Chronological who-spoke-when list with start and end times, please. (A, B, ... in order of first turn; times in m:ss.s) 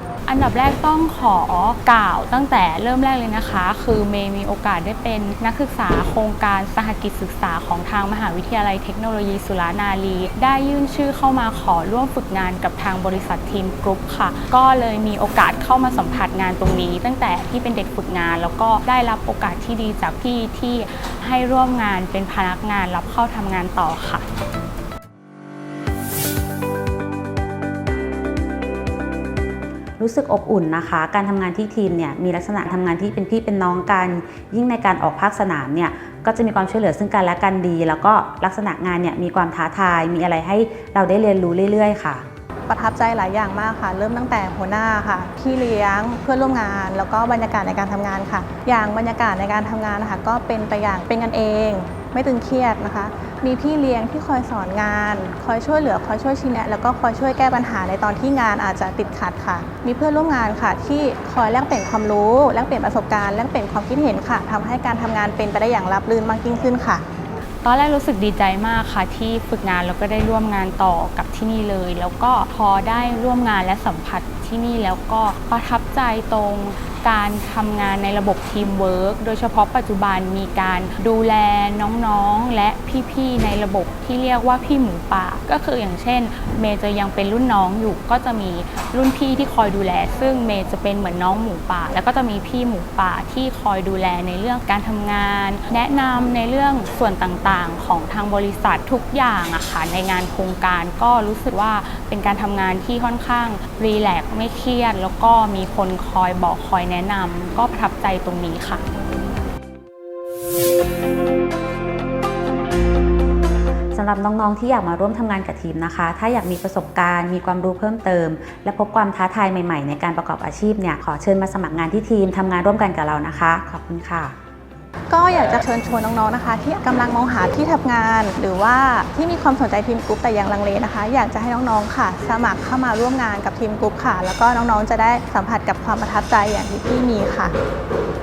0:00.2-0:24.2 A
0:30.0-0:42.2 B
0:42.7-1:07.0 C
1:07.6-1:48.8 A
1:53.9-2:04.3 B
2:05.1-2:17.5 C